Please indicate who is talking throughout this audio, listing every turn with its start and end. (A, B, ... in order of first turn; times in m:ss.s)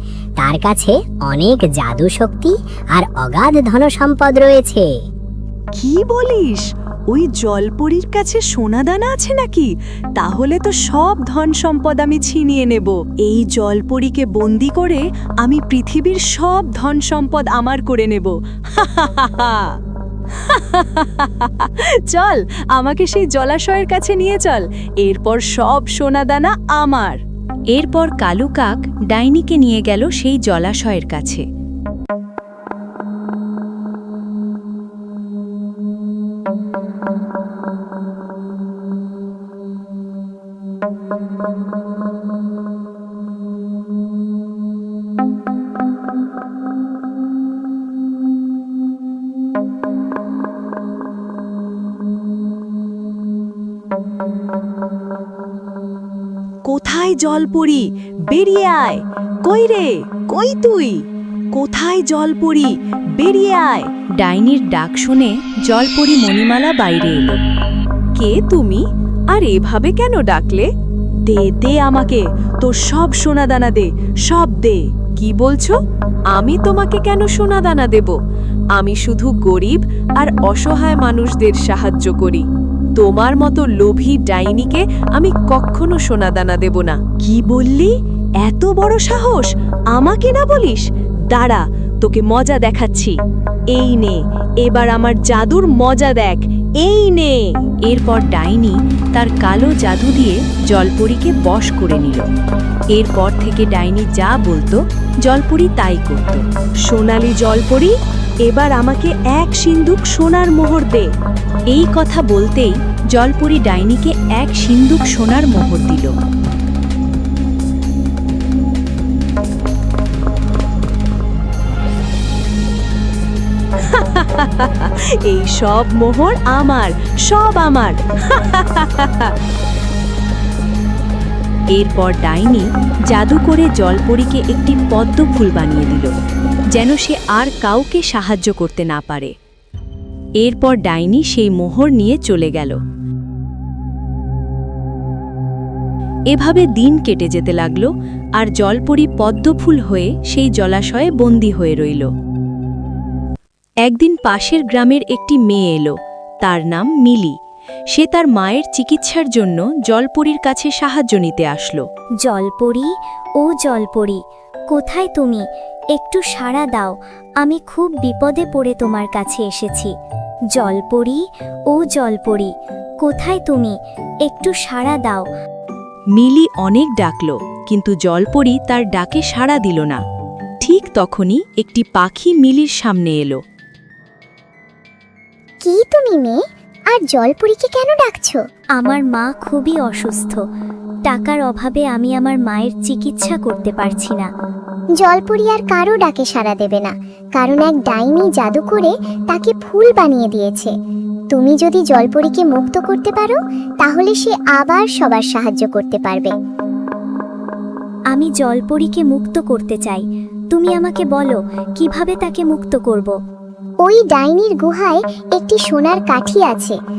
0:00.4-0:04.9 A
0:05.8-0:19.7 B
0:20.4-0:27.2 B
0:27.7-0:31.4 C
0:56.6-1:03.9 B
1:04.2-1:07.4 C
1:08.2-1:10.7 B
1:11.2-1:15.7 B
1:16.3-1:18.2 B
1:18.8-1:22.4 B
1:23.0-1:33.2 B
1:33.7-1:37.6 B
1:37.9-1:42.2 C
1:42.9-1:46.4 C
1:46.8-1:51.1 B
1:51.7-1:56.1 C
2:03.8-2:09.3 B
2:11.7-2:16.1 C
2:16.7-2:19.3 C
2:20.4-2:22.8 C
2:26.3-2:32.1 C
2:33.8-2:37.3 C
2:37.9-2:41.8 C
2:42.2-2:42.9 D
2:43.4-2:45.4 D
2:45.9-2:49.9 D
2:50.5-2:52.5 D
2:53.0-2:55.2 D
2:56.1-3:00.0 C
3:00.6-3:03.4 C
3:05.6-3:08.4 E
3:08.8-3:10.4 D
3:11.0-3:14.3 D
3:15.0-3:20.7 E
3:21.3-3:26.3 E
3:28.1-3:33.1 D
3:33.8-3:36.8 E